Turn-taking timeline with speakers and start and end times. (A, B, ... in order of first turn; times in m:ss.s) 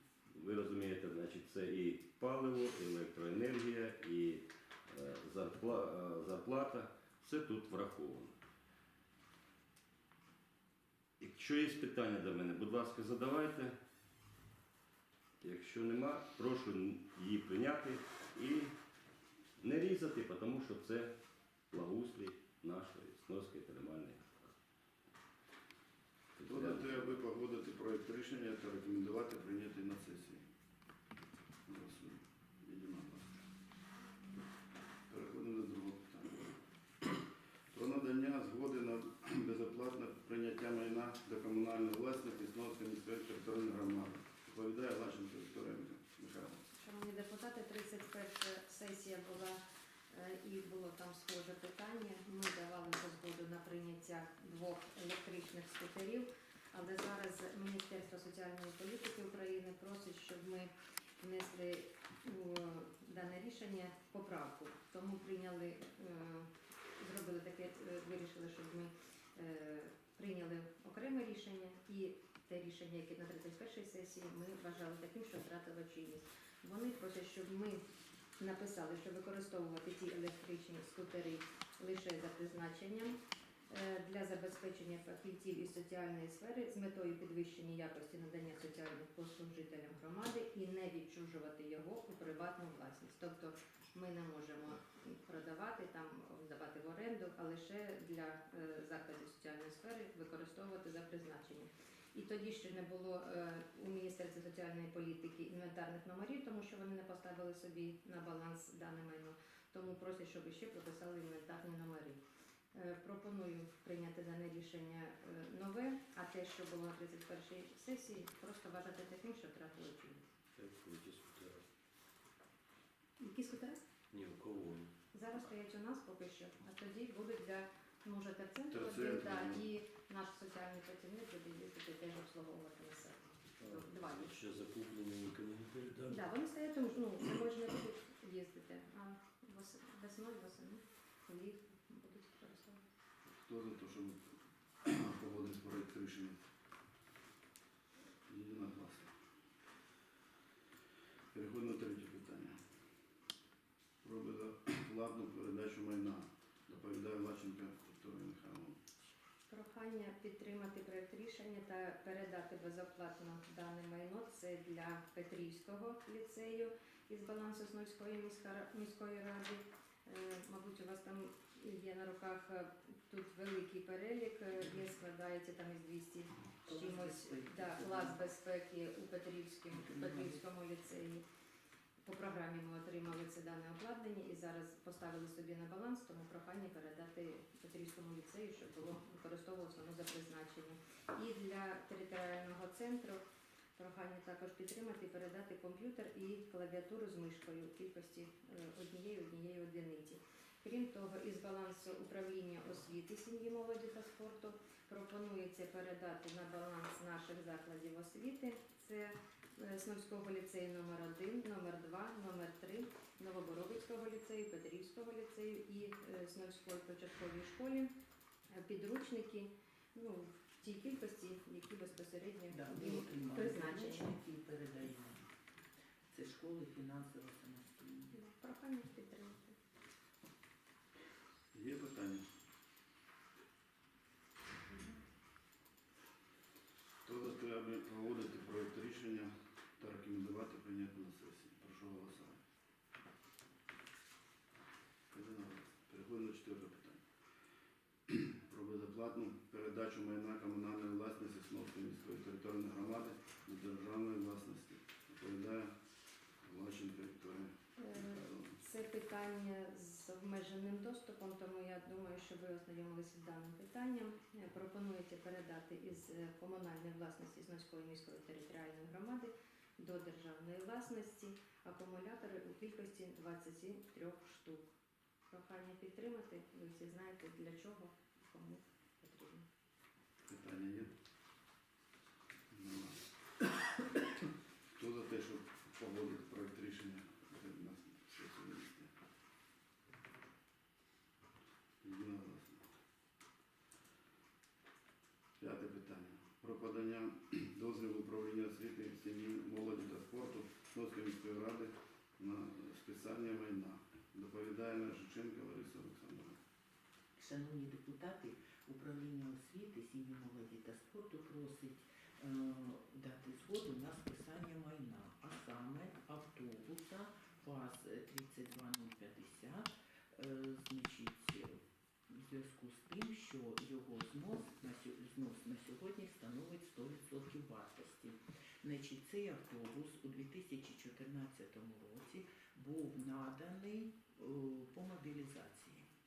0:00.3-0:08.4 A
0:11.2-0:13.7 A
0:15.4-0:18.7 A
0:19.6-0:21.1 A
0:21.7-0:24.5 A
0:26.4-0:27.2 A
0:26.4-0:30.4 B
0:31.7-0:33.4 B
0:35.1-0:36.6 B
0:37.7-0:46.6 B
0:46.8-0:49.6 C
0:50.1-1:00.7 C
1:01.2-1:06.5 C
1:07.0-1:17.8 C
1:18.4-1:23.2 C
1:23.7-1:52.2 C
1:52.7-2:00.2 C
2:00.6-2:01.6 D
2:03.2-2:03.8 C
2:04.1-2:04.9 D
2:05.1-2:14.4 C
2:08.7-2:09.6 B
2:13.6-2:16.2 D
2:16.1-2:22.8 C
2:23.4-2:24.2 B
2:24.8-2:26.4 B
2:28.3-2:29.1 B
2:31.3-2:32.6 B
2:34.0-2:38.8 B
2:39.5-3:01.2 C
2:56.6-2:58.2 E
2:59.7-3:00.4 E
3:02.0-3:13.2 C
3:13.8-3:37.9 C
3:38.6-3:44.1 C
3:42.5-3:45.3 E
3:46.1-3:48.2 E
3:48.1-3:49.6 C
3:51.5-3:52.2 B
3:57.0-4:02.4 B
4:05.1-4:07.0 B
4:08.1-4:15.7 B
4:16.4-4:18.6 B
4:17.8-4:34.6 C
4:35.3-4:39.4 C
4:40.3-4:40.9 B
4:42.5-4:43.0 B
4:44.7-4:48.9 B
4:51.8-4:52.7 B
4:55.4-5:06.4 B
5:07.2-5:21.5 E
5:22.1-5:35.9 E